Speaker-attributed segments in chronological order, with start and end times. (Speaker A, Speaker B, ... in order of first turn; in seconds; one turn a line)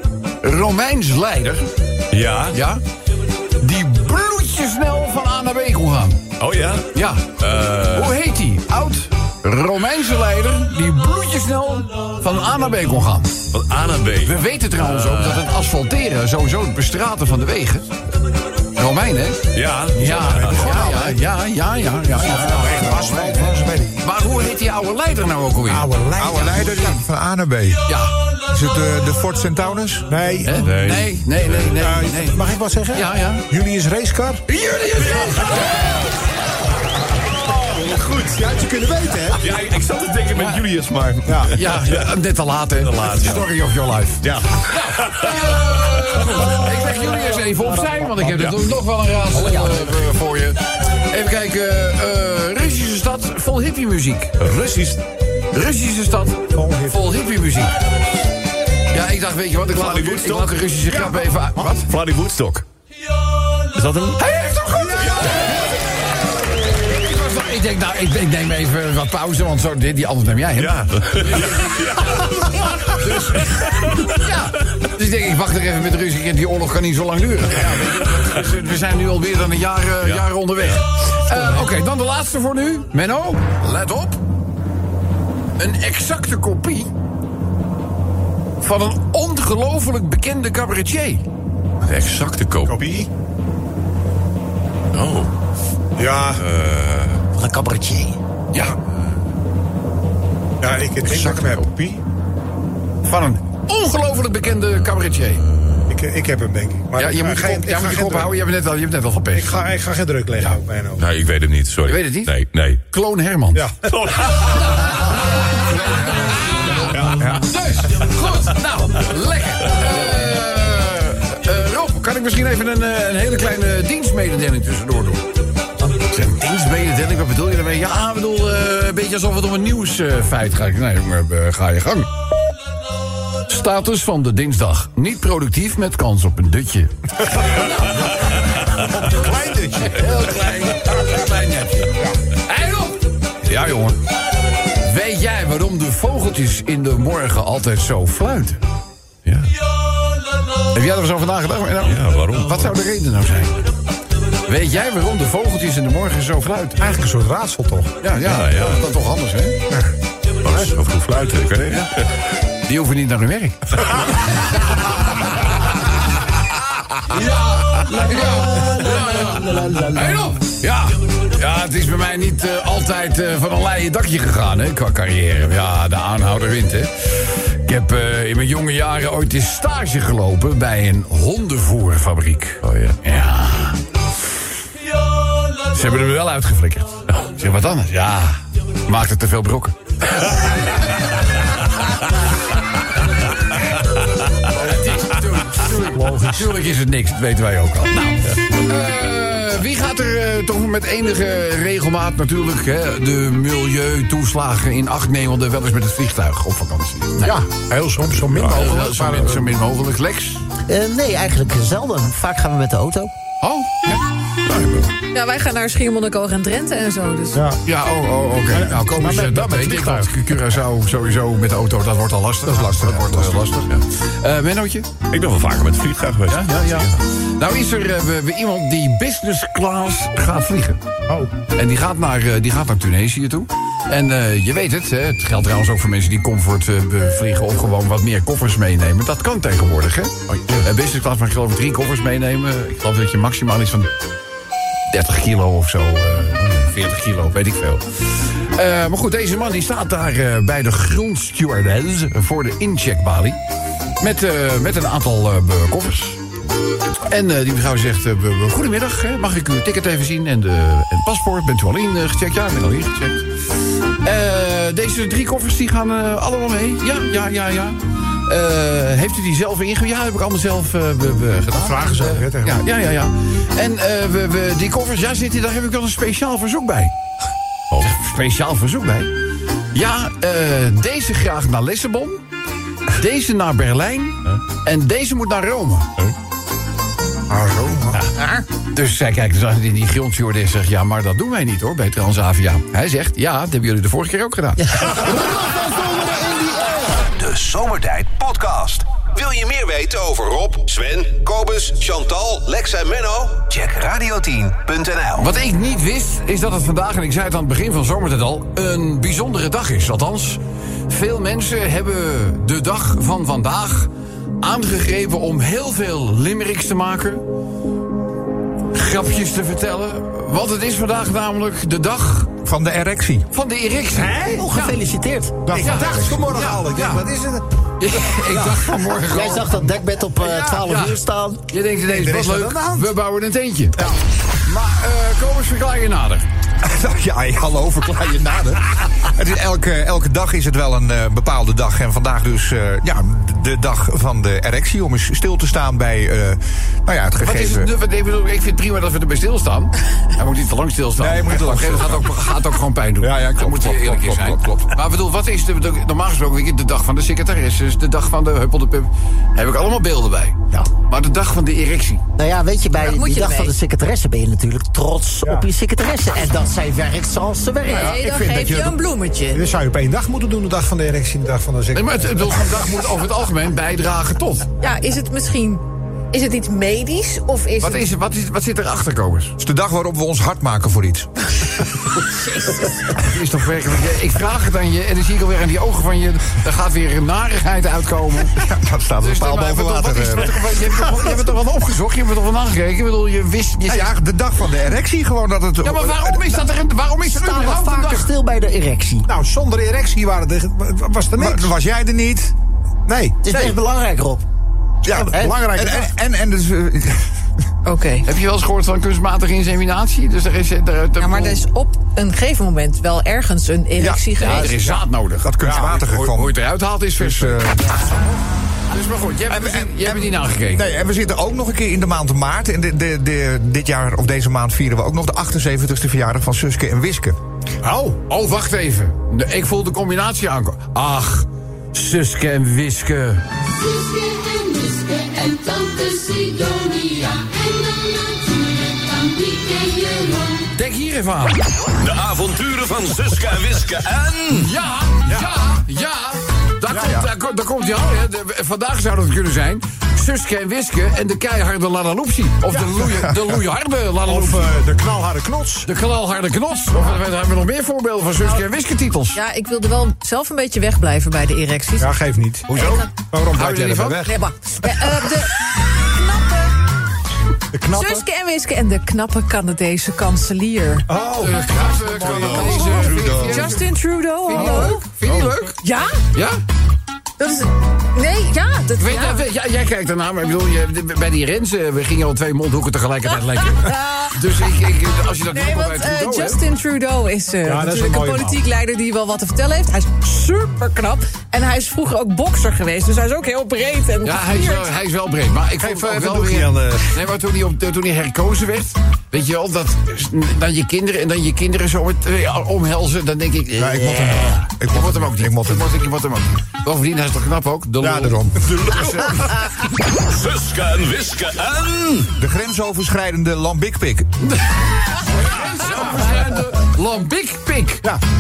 Speaker A: 0.4-1.7
Speaker B: 2.1-2.6
Speaker A: 2.5-2.8
Speaker A: 3.6-6.2
Speaker B: 6.4-8.2
Speaker A: 6.9-7.3
Speaker A: 7.9-13.4
Speaker B: 13.5-15.5
Speaker A: 14.2-17.9
Speaker A: 18.8-25.9
Speaker B: 19.5-20.7
Speaker C: 20.0-21.2
Speaker C: 22.1-24.0
Speaker C: 25.6-26.9
Speaker D: 26.2-27.9
Speaker A: 27.9-28.1
Speaker D: 28.5-30.1
Speaker C: 30.1-30.8
Speaker A: 30.4-33.5
Speaker B: 30.6-31.7
Speaker C: 31.8-34.4
Speaker A: 34.5-36.0
Speaker B: 37.6-38.6
Speaker C: 38.4-39.5
Speaker B: 39.3-42.1
Speaker A: 40.3-40.6
Speaker C: 41.2-41.5
Speaker A: 41.5-54.9
Speaker B: 42.8-43.5
Speaker B: 44.2-46.7
Speaker B: 48.2-48.8
Speaker B: 49.5-49.8
Speaker B: 54.4-55.0
Speaker A: 55.5-57.8
Speaker C: 56.5-57.1
Speaker A: 58.9-61.9
Speaker B: 59.7-61.1
Speaker B: 61.8-62.6
Speaker B: 63.7-64.2
Speaker A: 64.2-72.3
Speaker C: 64.7-66.1
Speaker B: 70.6-72.9
Speaker A: 72.8-84.2
Speaker B: 80.0-80.8
Speaker A: 85.6-86.9
Speaker A: 88.6-91.2
Speaker B: 91.8-92.9
Speaker C: 92.6-93.1
Speaker B: 94.9-95.3
Speaker C: 96.0-96.4
Speaker B: 96.3-97.2
Speaker E: 97.3-98.2
Speaker C: 100.6-102.0
Speaker B: 101.0-101.7
Speaker A: 103.0-105.4
Speaker B: 104.6-105.9
Speaker C: 105.9-108.4
Speaker A: 107.0-109.5
Speaker C: 109.3-111.0
Speaker B: 111.0-112.8
Speaker A: 111.8-125.2
Speaker C: 113.5-113.9
Speaker B: 113.9-115.0
Speaker C: 117.0-117.5
Speaker A: 125.8-132.1
Speaker A: 133.5-138.3
Speaker C: 138.8-140.3
Speaker A: 139.7-144.0
Speaker A: 144.8-148.6
Speaker A: 150.7-153.7
Speaker B: 151.8-152.8
Speaker A: 154.5-156.8
Speaker C: 156.8-157.9
Speaker A: 158.0-159.6
Speaker B: 158.2-158.8
Speaker B: 160.4-162.1
Speaker A: 162.7-165.9
Speaker A: 167.1-183.8
Speaker B: 182.6-183.0
Speaker A: 185.7-189.8
Speaker A: 194.4-207.4
Speaker C: 195.9-196.4
Speaker C: 207.2-209.6
Speaker A: 208.3-210.4
Speaker E: 210.7-213.1
Speaker A: 213.4-214.0
Speaker B: 214.5-214.8
Speaker F: 215.1-217.4
Speaker C: 217.3-217.6
Speaker A: 217.7-224.9
Speaker C: 218.5-220.2
Speaker C: 222.4-223.6
Speaker B: 225.1-227.0
Speaker A: 226.3-230.8
Speaker A: 231.5-243.9
Speaker B: 240.3-240.6
Speaker A: 244.9-253.4
Speaker A: 254.0-256.2
Speaker A: 257.1-263.3
Speaker A: 264.0-276.9
Speaker C: 271.5-272.6
Speaker A: 277.8-279.1
Speaker A: 279.7-282.2
Speaker A: 282.9-285.9
Speaker C: 287.3-288.0
Speaker A: 287.9-294.7
Speaker C: 294.8-296.6
Speaker G: 297.1-305.3
Speaker A: 305.2-313.9
Speaker A: 314.4-317.2
Speaker A: 318.7-322.3
Speaker D: 322.4-323.3
Speaker A: 323.3-324.8
Speaker C: 323.9-324.5
Speaker E: 324.4-325.8
Speaker C: 325.4-327.4
Speaker A: 325.5-327.1
Speaker A: 327.8-329.7
Speaker C: 328.1-328.8
Speaker E: 329.1-331.4
Speaker A: 330.3-333.8
Speaker C: 331.9-332.9
Speaker A: 334.4-336.2
Speaker D: 336.6-347.7
Speaker A: 347.2-362.0
Speaker D: 351.0-352.2
Speaker D: 353.0-354.7
Speaker E: 362.2-368.0
Speaker F: 362.9-363.6
Speaker F: 367.6-369.4
Speaker D: 368.0-368.7
Speaker C: 368.4-368.7
Speaker C: 369.3-372.7
Speaker A: 371.7-374.5
Speaker F: 374.6-377.9
Speaker A: 377.6-379.4
Speaker D: 379.4-381.1
Speaker F: 382.2-382.7
Speaker A: 383.0-388.4
Speaker D: 388.3-390.6
Speaker A: 389.0-394.0
Speaker D: 393.6-396.4
Speaker A: 395.6-398.1
Speaker E: 397.0-399.1
Speaker C: 399.1-401.5
Speaker D: 401.1-402.3
Speaker C: 402.9-403.2
Speaker E: 403.2-404.2
Speaker D: 404.8-407.1
Speaker C: 404.9-405.9
Speaker F: 407.6-408.1
Speaker A: 408.1-411.4
Speaker F: 411.0-414.6
Speaker D: 413.8-414.3
Speaker A: 414.2-417.6
Speaker D: 415.2-416.4
Speaker C: 415.4-415.7
Speaker D: 416.9-417.9
Speaker A: 418.7-420.7
Speaker D: 419.3-427.2
Speaker C: 427.6-428.0
Speaker A: 428.1-433.2
Speaker H: 433.6-440.5
Speaker A: 440.5-441.4
Speaker I: 441.8-444.5
Speaker A: 444.3-454.6
Speaker D: 446.7-447.1
Speaker C: 454.0-455.7
Speaker A: 455.6-459.2
Speaker F: 458.2-458.4
Speaker F: 459.1-462.0
Speaker C: 461.8-464.1
Speaker F: 462.5-462.9
Speaker A: 462.5-462.8
Speaker A: 463.3-464.1
Speaker F: 464.1-466.6
Speaker C: 467.5-468.1
Speaker F: 467.7-470.9
Speaker C: 470.9-472.7
Speaker A: 471.2-473.7
Speaker D: 472.1-473.6
Speaker F: 472.3-474.9
Speaker A: 474.2-475.6
Speaker C: 474.3-475.4
Speaker F: 475.6-476.0
Speaker A: 476.1-476.4
Speaker F: 477.2-479.3
Speaker A: 478.8-486.4
Speaker F: 483.6-484.5
Speaker F: 485.3-494.7
Speaker C: 487.4-488.4
Speaker A: 494.0-509.1
Speaker C: 495.6-496.9
Speaker D: 503.6-505.7
Speaker D: 507.8-509.4
Speaker I: 509.9-512.1
Speaker D: 512.2-514.1
Speaker A: 514.2-517.9
Speaker C: 515.5-516.1